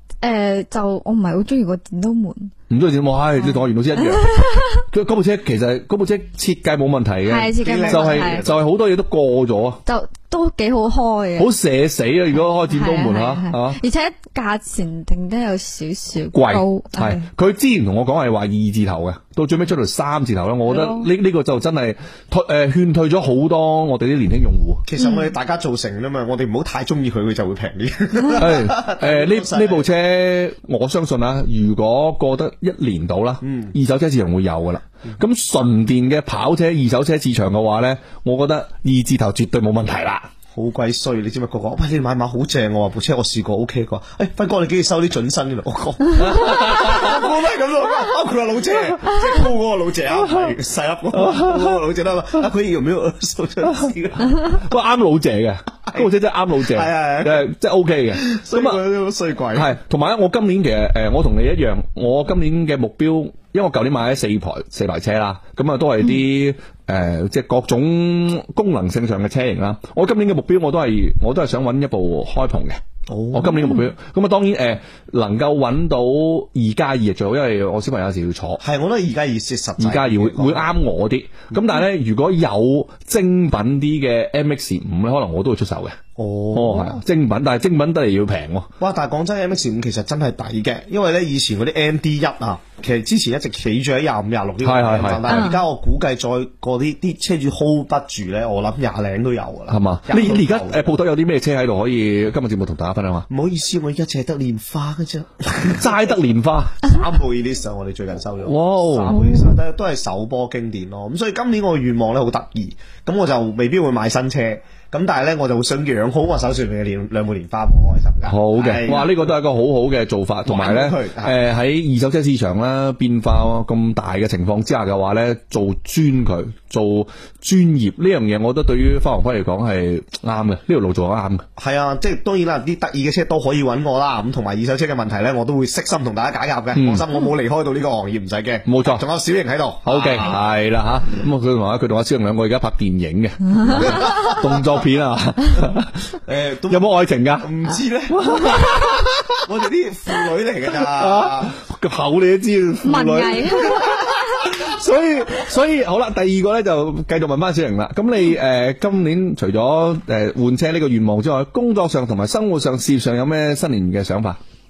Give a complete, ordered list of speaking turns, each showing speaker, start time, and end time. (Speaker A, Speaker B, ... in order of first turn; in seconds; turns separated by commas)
Speaker A: 0.2-2.5, Speaker B: 2.7-4.4, Speaker A: 3.4-4.8, Speaker B: 4.9-9.8, Speaker A: 7.2-8.4, Speaker C: 7.6-8.6, Speaker A: 9.9-11.5, Speaker B: 11.4-13.8, Speaker A: 12.3-17.3, Speaker B: 16.3-24.8, Speaker A: 20.6-21.1, Speaker C: 24.9-29.9, Speaker A: 25.0-25.2, Speaker B: 28.4-40.3, Speaker C: 33.4-33.7, Speaker C: 40.5-54.4, Speaker B: 46.2-47.2, Speaker B: 50.2-50.5, Speaker B: 51.1-51.8, Speaker B: 54.4-58.8, Speaker C: 56.7-57.5, Speaker C: 58.1-59.7, Speaker B: 59.5-72.8, Speaker C: 73.1-73.7, Speaker B: 73.3-78.6, Speaker C: 78.6-80.6, Speaker B: 79.8-86.0, Speaker C: 86.2-87.0, Speaker B: 86.5-88.7, Speaker C: 88.8-100.9, Speaker B: 94.6-95.5, Speaker A: 95.3-95.6, Speaker B: 99.7-103.3, Speaker C: 103.3-106.1, Speaker B: 105.6-106.8, Speaker C: 106.8-119.1, Speaker B: 108.4-109.2, Speaker A: 109.1-109.4, Speaker B: 118.3-131.4, Speaker C: 120.5-121.3, Speaker C: 131.6-140.4, Speaker B: 136.7-137.0, Speaker B: 138.7-139.0, Speaker B: 139.8-146.0, Speaker C: 143.7-144.4, Speaker A: 144.0-144.3, Speaker C: 146.3-146.8, Speaker B: 146.7-147.5, Speaker C: 147.4-148.7, Speaker B: 148.1-149.4, Speaker C: 149.4-151.5, Speaker B: 150.8-164.4, Speaker A: 152.8-154.4